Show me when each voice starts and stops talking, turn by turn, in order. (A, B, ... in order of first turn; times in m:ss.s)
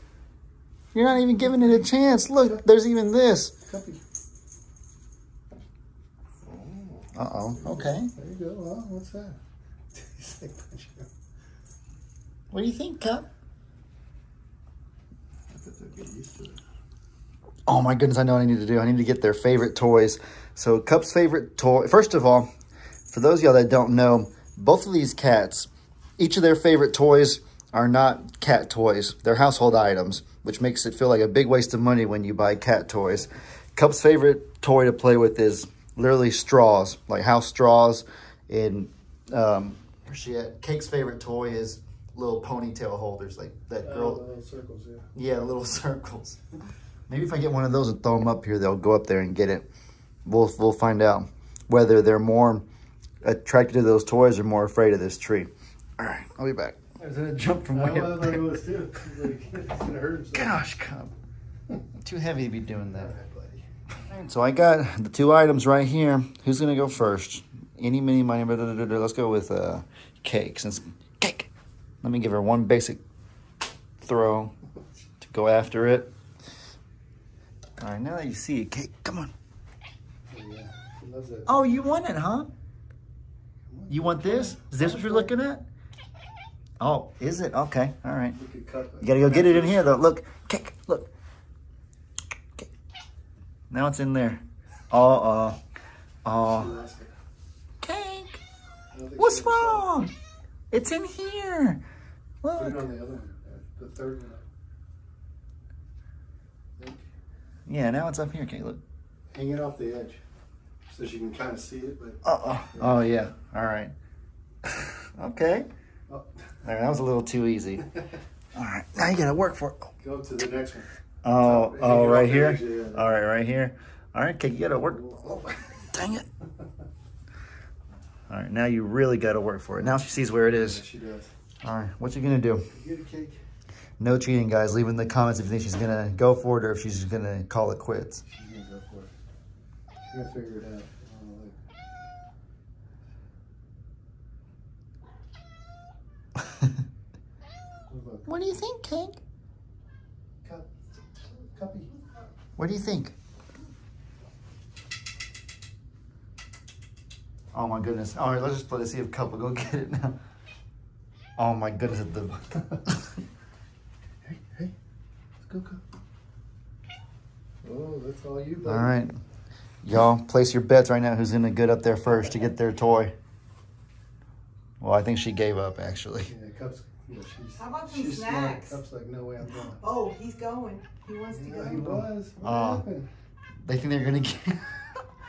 0:00.9-0:03.5 A
0:03.7-0:04.0 B
0:06.4-0:09.4 B
0:07.1-0:08.1 A
0:09.9-0:11.1 B
0:12.5-0:13.3 A
0:15.5-0:16.6 B
0:17.7-0:22.5 A
0:23.1-0:44.2 A
0:43.8-0:45.1 B
0:45.2-0:46.4 A
0:47.1-0:49.7 A
0:50.3-0:52.6 A
0:53.2-0:58.5 A
0:57.7-1:00.6 B
1:00.3-1:01.1 A
1:02.0-1:03.1 A
1:02.8-1:03.6 B
1:04.1-1:11.5 A
1:12.0-1:13.0 A
1:14.0-1:14.5 A
1:15.2-1:16.1 A
1:17.8-1:19.3 A
1:20.3-1:21.7 B
1:21.5-1:22.5 A
1:23.7-1:25.3 B
1:23.9-1:25.6 A
1:26.8-1:28.4 A
1:28.3-1:29.8 B
1:29.0-1:31.1 A
1:33.7-1:35.6 A
1:36.2-1:36.8 A
1:36.4-1:37.1 B
1:37.8-1:38.4 A
1:38.9-1:39.9 B
1:39.2-1:40.1 A
1:40.7-1:41.8 A
1:42.4-1:42.8 A
1:42.6-1:44.4 B
1:46.8-1:47.0 B
1:47.7-1:48.8 A
1:49.3-1:50.2 B
1:50.9-1:52.2 B
1:52.2-1:53.9 A
1:54.6-1:55.7 A
1:56.6-1:57.9 A
1:58.6-1:59.9 A
2:00.0-2:03.1 B
2:01.2-2:06.3 A
2:04.7-2:05.8 B
2:08.3-2:10.8 A
2:10.5-2:11.3 B
2:11.6-2:12.7 A
2:12.7-2:13.4 B
2:14.0-2:18.2 A
2:18.2-2:19.1 B
2:20.1-2:21.6 B
2:27.9-2:28.3 B
2:28.3-2:29.2 A
2:30.4-2:30.7 B
2:31.4-2:32.0 B
2:32.6-2:33.1 A
2:37.5-2:40.2 A
2:41.4-2:43.0 A
2:44.2-2:44.7 B
2:45.4-2:45.8 B
2:47.6-2:48.9 B
2:48.6-2:49.1 A
2:49.8-2:53.1 A
2:54.8-2:56.3 A
2:56.3-2:59.8 B
2:57.6-2:58.8 C
2:59.7-3:01.9 C
3:01.3-3:03.1 B
3:01.8-3:02.9 A
3:03.6-3:04.9 A